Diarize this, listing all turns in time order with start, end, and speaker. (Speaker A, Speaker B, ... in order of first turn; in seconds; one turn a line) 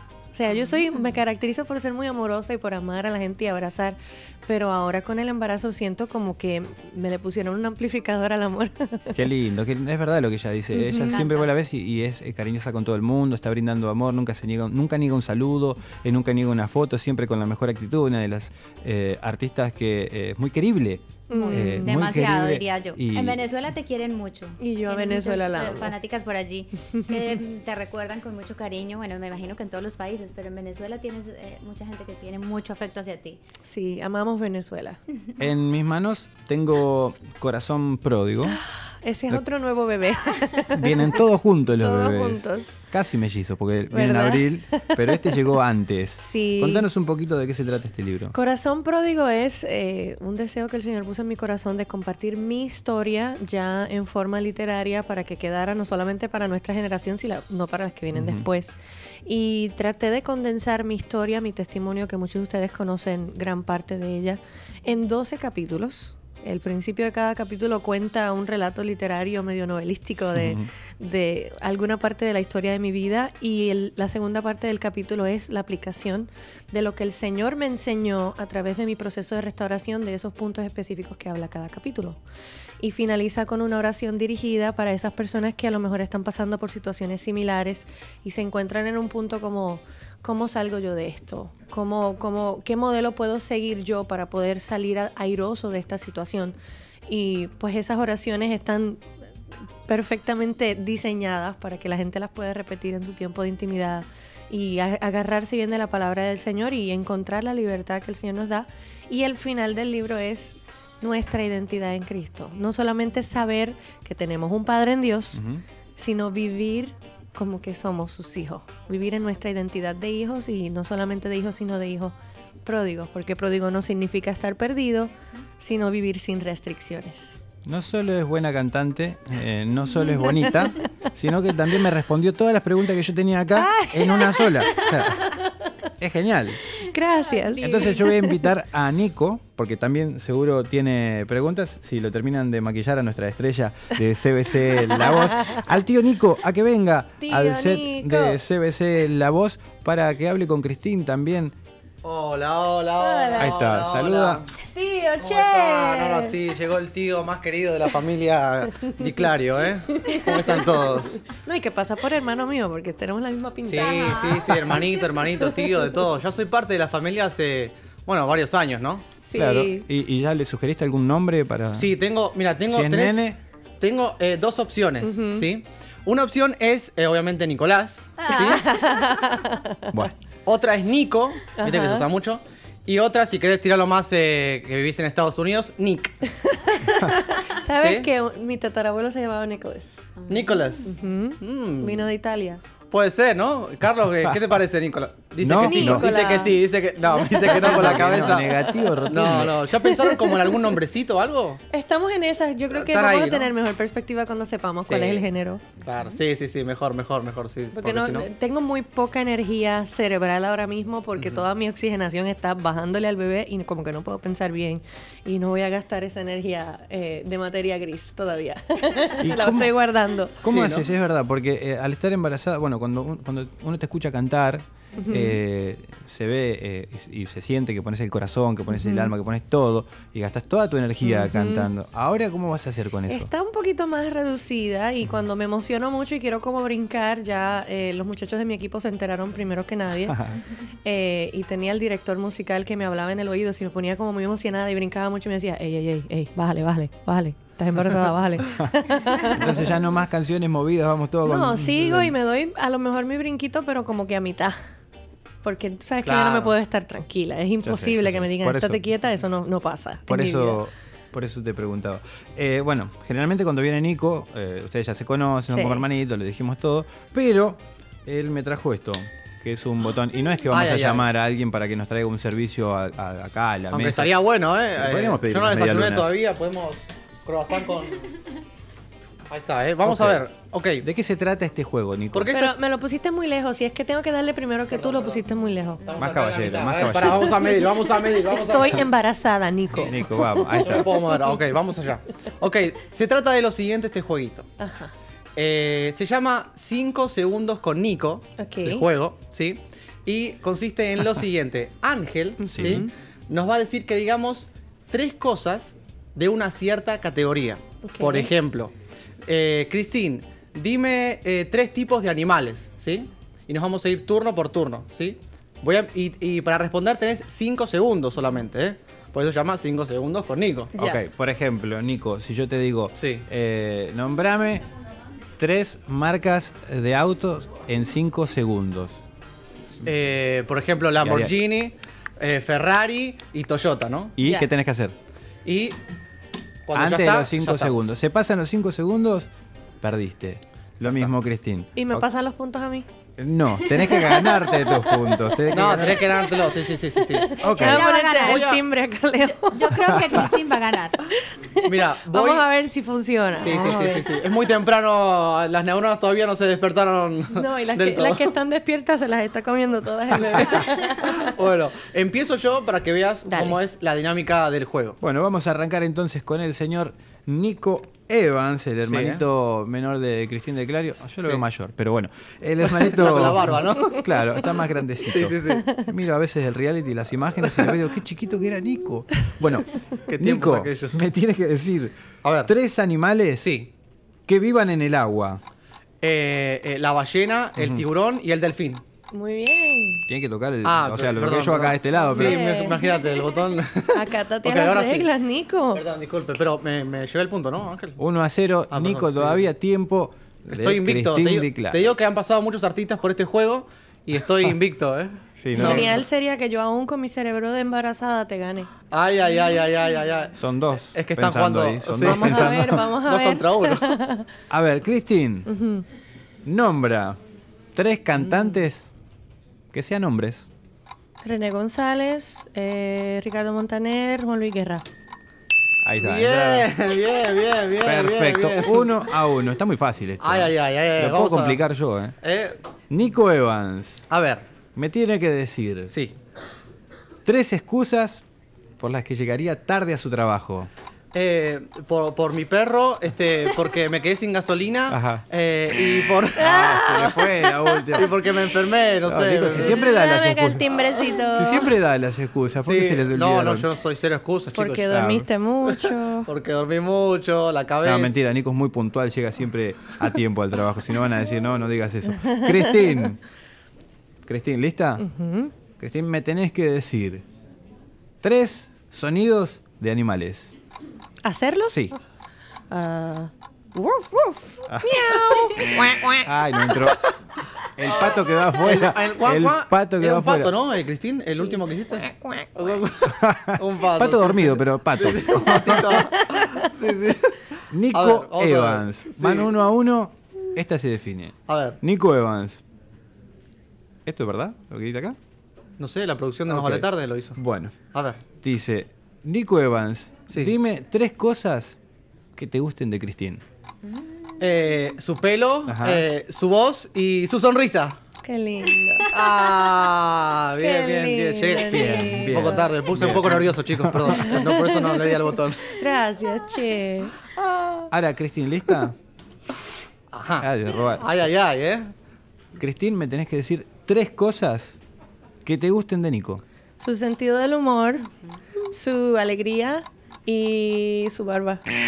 Speaker A: 0.3-9.2
Speaker B: 9.1-23.4
Speaker A: 10.7-11.2
Speaker C: 10.9-11.5
Speaker A: 21.3-22.0
Speaker C: 21.3-33.4
Speaker A: 24.6-25.9
Speaker A: 33.6-35.0
Speaker B: 35.4-38.6
Speaker A: 38.4-41.2
Speaker B: 40.7-48.3
Speaker A: 41.8-42.8
Speaker A: 43.9-45.4
Speaker A: 46.2-46.9
Speaker A: 48.3-82.2
Speaker B: 58.1-58.4
Speaker B: 70.3-70.7
Speaker A: 82.8-96.5
Speaker A: 97.1-99.0
Speaker A: 99.9-115.4
Speaker B: 115.3-115.6
Speaker A: 116.0-122.1
Speaker A: 122.6-127.4
Speaker B: 127.6-135.4
Speaker A: 133.6-135.5
Speaker B: 136.0-136.6
Speaker A: 136.8-138.5
Speaker C: 137.5-137.9
Speaker B: 137.5-151.5
Speaker A: 145.0-145.6
Speaker A: 147.2-148.4
Speaker D: 152.0-154.5
Speaker A: 153.0-153.7
Speaker B: 153.4-154.4
Speaker A: 154.6-156.4
Speaker D: 155.2-161.2
Speaker A: 159.9-165.7
Speaker D: 163.6-169.0
Speaker C: 163.8-164.5
Speaker A: 169.3-169.8
Speaker B: 169.3-171.9
Speaker D: 171.7-173.2
Speaker B: 172.7-173.4
Speaker D: 173.8-178.6
Speaker A: 175.0-175.5
Speaker A: 178.2-180.1
Speaker D: 180.4-186.2
Speaker A: 181.6-182.1
Speaker A: 186.4-190.1
Speaker D: 187.8-188.1
Speaker C: 190.2-190.7
Speaker D: 190.3-192.1
Speaker A: 190.8-192.6
Speaker D: 192.9-198.5
Speaker B: 195.4-196.1
Speaker A: 195.6-196.6
Speaker A: 197.1-200.7
Speaker B: 197.5-199.7
Speaker D: 199.1-201.6
Speaker A: 201.7-205.6
Speaker D: 202.7-203.5
Speaker D: 204.8-205.2
Speaker D: 205.8-208.3
Speaker A: 207.7-220.4
Speaker D: 211.2-211.4
Speaker B: 219.2-219.7
Speaker B: 220.4-233.3
Speaker D: 220.4-220.9
Speaker A: 225.0-225.4
Speaker A: 228.7-229.1
Speaker A: 231.0-231.7
Speaker A: 233.1-249.7
Speaker B: 249.2-252.2
Speaker A: 251.2-254.6
Speaker A: 255.4-260.6
Speaker D: 256.0-256.5
Speaker B: 257.6-258.8
Speaker B: 260.1-276.1
Speaker A: 265.5-265.9
Speaker D: 270.5-271.1
Speaker D: 273.7-278.1
Speaker D: 279.3-280.8
Speaker B: 279.8-280.2
Speaker B: 280.8-282.3
Speaker D: 282.1-282.5
Speaker A: 282.3-285.8
Speaker D: 284.7-285.2
Speaker D: 285.8-288.9
Speaker B: 286.0-287.4
Speaker A: 287.1-290.9
Speaker B: 289.7-290.9
Speaker D: 290.5-294.5
Speaker A: 294.6-294.9
Speaker D: 295.3-308.7
Speaker A: 298.4-298.9
Speaker A: 302.4-302.9
Speaker B: 302.5-302.8
Speaker A: 307.8-308.3
Speaker D: 309.2-320.7
Speaker B: 320.7-324.6
Speaker D: 323.0-323.2
Speaker B: 325.4-329.0
Speaker D: 329.8-334.2
Speaker B: 331.0-331.3
Speaker B: 334.2-334.9
Speaker C: 334.2-334.5
Speaker D: 335.4-335.8
Speaker D: 336.7-337.8
Speaker B: 336.7-339.3
Speaker B: 339.8-342.1
Speaker D: 340.9-341.1
Speaker A: 341.8-342.9
Speaker B: 343.2-346.1
Speaker C: 343.8-344.8
Speaker D: 345.5-347.4
Speaker A: 346.3-350.3
Speaker B: 347.4-347.9
Speaker C: 347.4-348.6
Speaker D: 348.2-348.6
Speaker C: 349.2-351.0
Speaker A: 351.1-354.1
Speaker D: 351.6-352.4
Speaker D: 353.4-358.3
Speaker A: 357.3-361.3
Speaker D: 360.1-365.0
Speaker A: 363.2-363.6
Speaker B: 365.0-383.5
Speaker D: 368.8-369.2
Speaker D: 372.6-374.0
Speaker D: 375.0-375.7
Speaker D: 380.1-381.0
Speaker D: 382.2-382.5
Speaker D: 383.4-383.7
Speaker B: 384.3-385.4
Speaker D: 386.0-388.8
Speaker B: 387.6-387.8
Speaker A: 389.1-390.1
Speaker B: 390.1-392.4
Speaker D: 390.6-395.1
Speaker A: 392.0-393.2
Speaker A: 393.9-395.8
Speaker D: 395.7-398.0
Speaker B: 398.0-401.9
Speaker D: 398.7-399.5
Speaker D: 400.5-406.0
Speaker B: 405.4-406.0
Speaker A: 405.5-408.7
Speaker D: 408.9-410.4
Speaker B: 410.4-412.8
Speaker D: 410.9-413.9
Speaker A: 412.0-414.2
Speaker B: 414.5-415.5
Speaker A: 415.5-415.8
Speaker B: 416.4-417.2
Speaker B: 417.7-418.9
Speaker D: 418.3-418.5
Speaker B: 419.7-420.5
Speaker A: 421.2-424.8
Speaker B: 425.8-426.7
Speaker D: 426.0-429.0
Speaker B: 427.8-432.1
Speaker D: 430.2-431.6
Speaker D: 432.2-432.6
Speaker B: 432.9-434.1
Speaker D: 434.1-434.4
Speaker B: 434.7-435.9
Speaker D: 435.9-436.1
Speaker B: 437.2-438.2
Speaker B: 438.8-440.7
Speaker D: 441.1-447.1
Speaker B: 444.9-445.2
Speaker A: 446.4-447.8
Speaker B: 446.4-448.2
Speaker D: 447.9-449.9
Speaker B: 449.0-453.7
Speaker A: 449.5-451.7
Speaker D: 452.6-454.9
Speaker A: 454.5-456.3
Speaker B: 454.9-455.2
Speaker D: 455.7-458.1
Speaker B: 457.8-463.2
Speaker B: 464.2-465.1
Speaker A: 465.0-465.5
Speaker B: 465.8-467.2
Speaker B: 468.2-470.5
Speaker A: 471.2-471.9
Speaker A: 472.7-476.3
Speaker B: 474.7-475.5
Speaker B: 476.2-477.1
Speaker B: 477.8-480.5
Speaker D: 477.9-489.5
Speaker B: 483.2-485.9
Speaker A: 486.1-486.7
Speaker B: 487.7-492.6
Speaker D: 491.5-491.8
Speaker B: 494.1-495.1
Speaker D: 495.8-497.4
Speaker B: 496.5-497.8
Speaker D: 497.9-498.2
Speaker B: 498.4-501.8
Speaker B: 502.4-503.4
Speaker D: 504.4-508.0
Speaker B: 505.6-506.1
Speaker A: 508.2-509.1
Speaker D: 509.1-515.9
Speaker A: 510.6-512.7
Speaker B: 511.6-514.4
Speaker A: 514.1-517.3
Speaker B: 517.9-519.0
Speaker D: 520.1-520.5
Speaker B: 520.4-521.1
Speaker D: 521.0-521.9
Speaker B: 522.6-524.8
Speaker B: 525.4-526.4
Speaker A: 526.8-528.1
Speaker A: 528.6-531.6